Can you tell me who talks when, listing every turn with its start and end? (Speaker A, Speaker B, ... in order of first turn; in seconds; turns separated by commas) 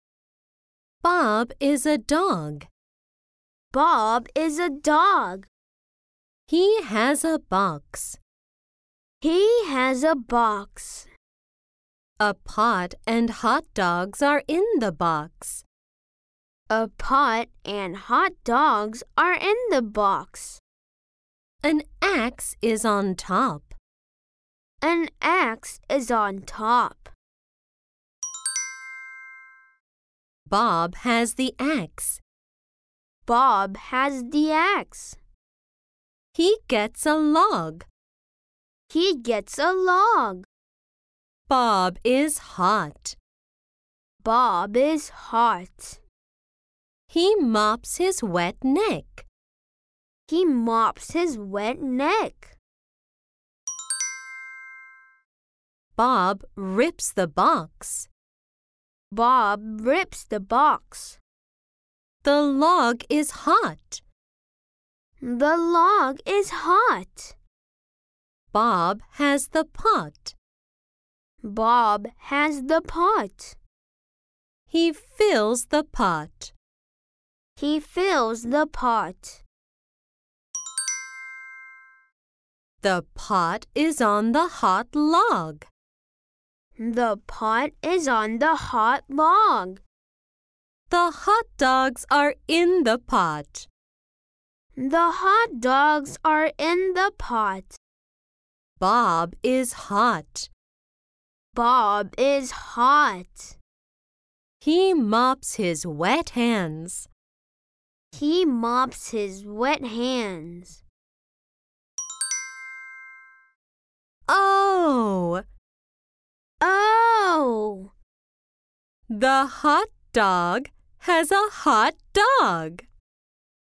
Speaker A: 1.0-2.7, Speaker B: 3.7-5.5, Speaker A: 6.5-8.2, Speaker B: 9.2-11.1, Speaker A: 12.2-15.6, Speaker B: 16.7-20.6, Speaker A: 21.6-23.7, Speaker B: 24.8-27.1, Speaker A: 30.5-32.2, Speaker B: 33.2-35.2, Speaker A: 36.3-37.9, Speaker B: 38.9-40.5, Speaker A: 41.5-43.2, Speaker B: 44.2-46.0, Speaker A: 47.1-49.2, Speaker B: 50.3-52.5, Speaker A: 56.0-58.1, Speaker B: 59.1-61.2, Speaker A: 62.2-64.0, Speaker B: 65.2-67.3, Speaker A: 68.5-70.3, Speaker B: 71.4-73.6, Speaker A: 74.7-76.5, Speaker B: 77.6-79.4, Speaker A: 82.8-85.7, Speaker B: 86.8-89.8, Speaker A: 90.9-93.7, Speaker B: 94.8-97.8, Speaker A: 98.8-100.5, Speaker B: 101.5-103.6, Speaker A: 104.6-107.1, Speaker B: 108.1-110.8, Speaker A: 114.3-115.4, Speaker B: 116.6-117.9, Speaker A: 119.1-122.9